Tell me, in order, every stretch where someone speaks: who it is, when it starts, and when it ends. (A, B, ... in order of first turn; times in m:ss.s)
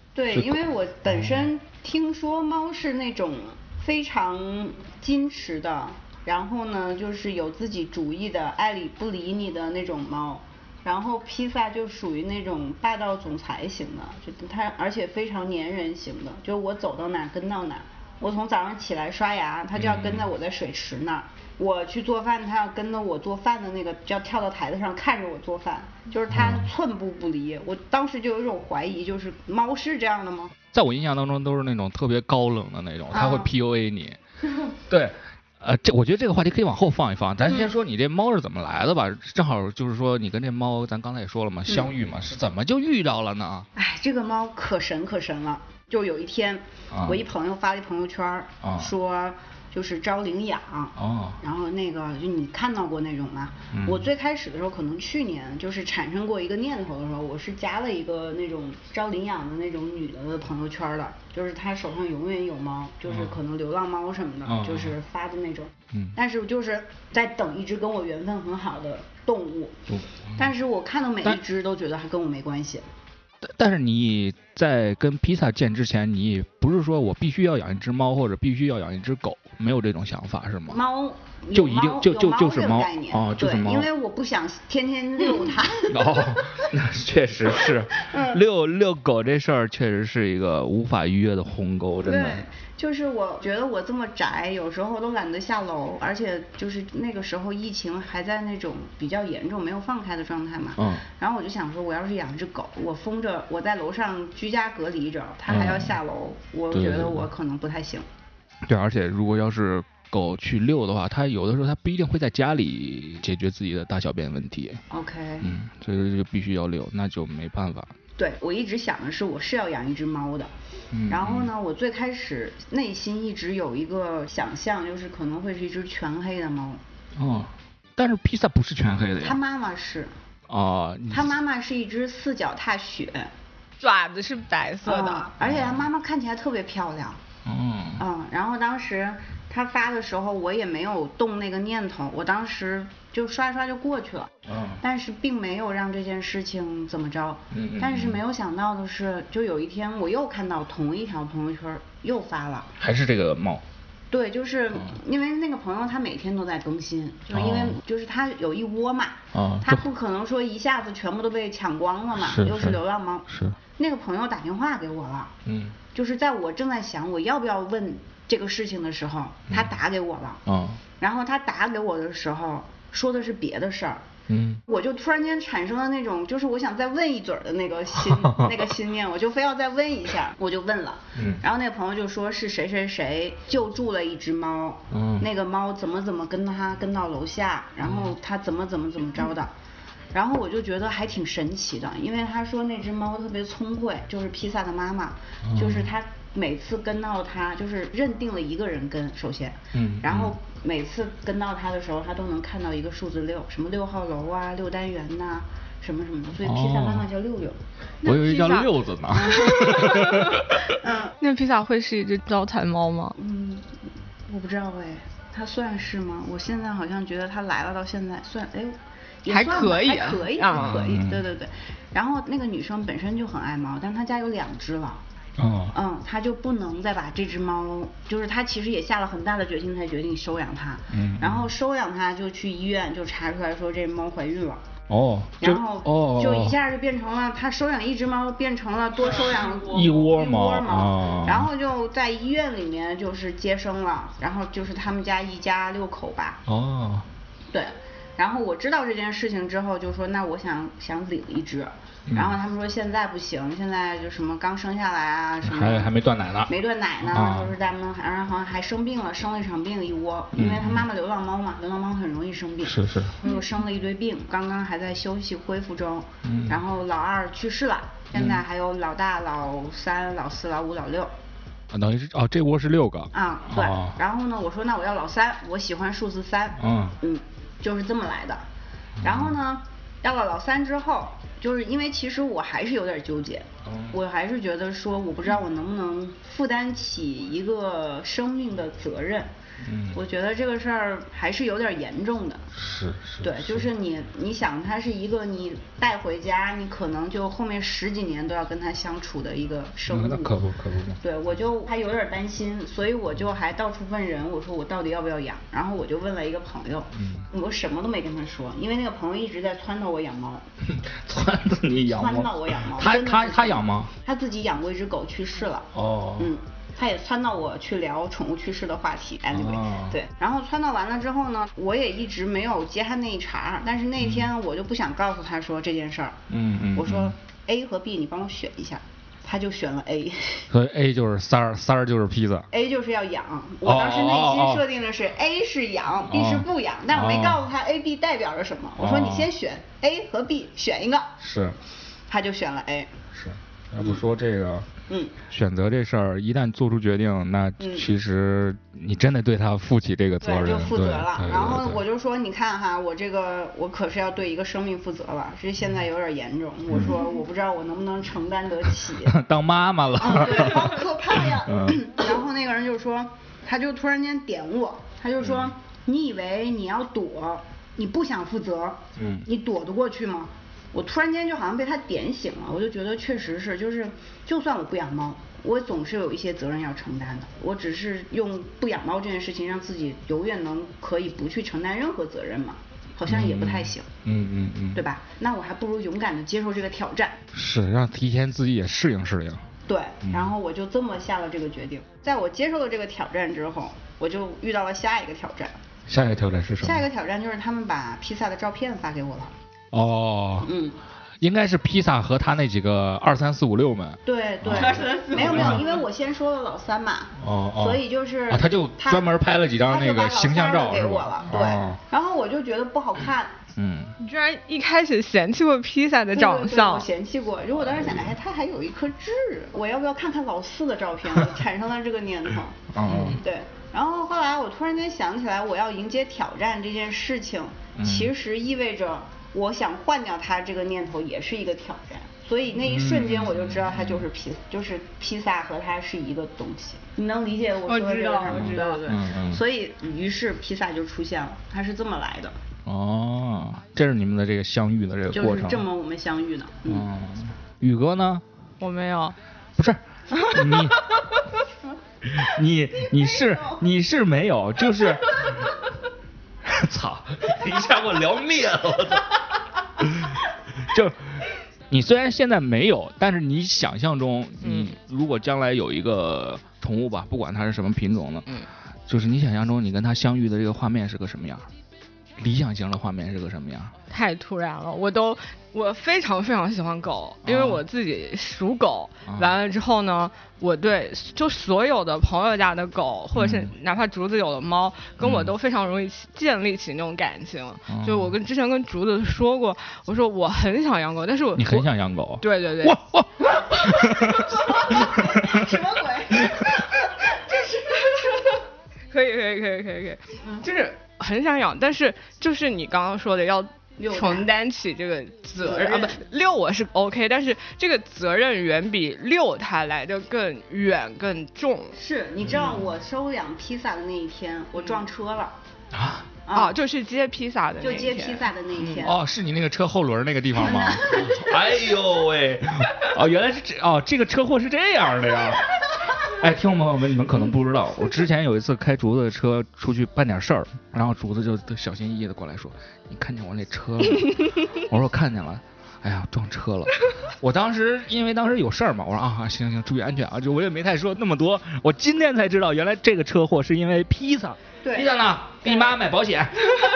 0:00.1-0:30.5 A
0:00.3-0:01.5 B
0:19.7-0:20.3 B
0:26.3-0:26.7 B
0:30.7-0:34.2 B
0:33.1-0:33.5 A
0:34.9-0:43.7 B
0:43.8-1:12.8 A
0:46.9-0:47.2 B
0:48.6-0:48.9 B
0:51.0-0:51.4 B
0:53.7-0:54.1 B
1:03.0-1:03.4 B
1:04.4-1:04.9 B
1:05.9-1:06.2 B
1:09.9-1:10.5 B
1:13.4-1:20.8 B
1:20.7-1:26.6 A
1:21.5-1:23.9 B
1:25.9-1:32.4 B
1:27.9-1:28.4 A
1:32.0-1:48.0 A
1:40.8-1:41.0 B
1:45.5-1:46.0 B
1:46.7-1:47.2 B
1:48.6-1:54.8 B
1:54.9-1:55.5 A
1:55.4-1:57.9 B
1:58.2-2:00.5 A
2:00.9-2:01.5 B
2:01.1-2:06.8 A
2:07.1-2:09.4 B
2:09.2-2:10.1 A
2:10.5-2:11.3 B
2:11.1-2:13.3 A
2:13.8-2:15.3 C
2:14.8-2:17.2 A
2:15.4-2:15.8 B
2:17.4-2:18.0 B
2:18.0-2:32.7 A
2:24.5-2:24.8 B
2:27.5-2:28.2 B
2:32.8-2:33.6 B
2:34.1-2:45.3 A
2:37.3-2:37.8 B
2:39.3-2:39.8 B
2:42.2-2:43.6 B
2:45.4-2:45.8 B
2:45.9-2:50.4 A
2:50.4-2:50.8 B
2:51.0-2:54.1 A
2:54.3-2:54.6 B
2:54.7-3:09.5 A
2:58.0-2:58.6 B
3:01.1-3:01.4 B
3:04.9-3:05.3 B
3:07.8-3:08.1 B
3:10.1-3:27.6 A
3:15.4-3:15.9 B
3:19.7-3:20.3 B
3:26.4-3:27.0 B
3:28.0-3:30.7 B
3:28.0-3:30.4 C
3:29.2-3:30.0 A
3:30.8-3:31.1 A
3:31.2-3:33.1 C
3:33.2-3:45.0 A
3:39.3-3:40.8 C
3:40.5-3:41.2 B
3:45.4-3:45.7 B
3:45.7-3:54.6 A
3:50.9-3:51.5 B
3:54.9-3:56.6 B
3:55.4-4:06.4 A
3:59.5-4:01.5 B
4:06.4-4:07.1 B
4:07.5-4:15.9 A
4:12.1-4:12.4 B
4:15.4-4:17.5 B
4:16.5-4:31.1 A
4:20.3-4:20.9 B
4:22.6-4:23.2 B
4:26.2-4:26.6 B
4:28.1-4:28.4 B
4:31.7-4:34.0 B
4:33.1-4:38.4 A
4:36.6-4:37.0 B
4:39.0-4:39.3 B
4:39.0-4:49.3 A
4:43.6-4:44.0 B
4:49.6-4:50.0 B
4:49.9-4:52.5 A
4:52.5-4:53.7 B
4:53.2-5:00.4 A
4:59.9-5:01.0 B
5:01.0-5:10.4 A
5:06.9-5:07.3 B
5:10.6-5:13.9 B
5:11.9-5:26.2 A
5:15.7-5:16.3 B
5:19.3-5:20.0 B
5:24.0-5:24.3 B
5:26.3-5:27.1 B
5:26.7-5:30.5 A
5:30.5-5:32.5 B
5:32.5-5:41.2 A
5:33.6-5:34.6 B
5:36.1-5:37.4 B
5:38.8-5:39.3 B
5:41.2-5:41.6 B
5:42.1-5:42.9 A
5:43.1-5:44.7 B
5:44.9-5:45.1 A
5:45.3-5:51.8 B
5:47.6-5:47.9 A
5:50.2-5:59.2 A
5:59.0-6:02.0 B
6:00.0-6:23.9 A
6:05.2-6:05.5 B
6:09.0-6:09.2 B
6:23.1-6:24.8 B
6:24.7-6:27.2 A
6:27.3-6:29.5 B
6:29.7-6:35.6 A
6:30.0-6:30.3 B
6:35.8-6:36.8 B
6:36.6-6:39.3 A
6:39.7-6:40.5 B
6:40.4-6:40.8 A
6:41.2-6:45.6 B
6:44.0-6:49.1 A
6:44.5-6:45.8 C
6:47.2-6:51.8 B
6:49.6-6:53.3 A
6:53.5-6:54.0 B
6:54.0-6:56.9 C
6:56.1-7:22.4 A
6:57.6-6:58.1 B
7:02.7-7:03.2 B
7:07.8-7:08.1 B
7:12.6-7:14.0 B
7:17.7-7:18.8 C
7:18.3-7:19.4 B
7:22.6-7:25.6 B
7:25.1-7:26.9 A
7:26.7-7:28.2 B
7:28.6-7:29.2 C
7:29.6-7:30.9 B
7:30.1-7:31.2 C
7:32.0-7:35.3 B
7:33.0-7:33.6 A
7:36.4-7:39.2 B
7:39.8-7:48.3 B
7:44.4-7:44.7 C
7:48.9-7:51.5 B
7:52.2-7:53.7 B
7:53.9-8:11.7 C
7:57.2-7:57.6 B
7:59.1-7:59.4 B
8:03.1-8:03.5 B
8:05.0-8:05.3 B
8:07.7-8:08.2 B
8:11.4-8:15.6 B
8:12.2-8:12.8 C
8:13.9-8:18.4 A
8:16.2-8:16.6 B
8:17.3-8:31.7 C
8:23.8-8:24.3 A
8:25.4-8:26.0 A
8:31.7-8:35.4 A
8:32.2-8:32.6 B
8:35.7-8:36.1 B
8:36.2-8:36.5 A
8:36.3-8:38.9 C
8:37.6-8:39.0 A
8:38.8-9:06.5 B
8:40.4-8:41.4 A
9:04.6-9:04.9 A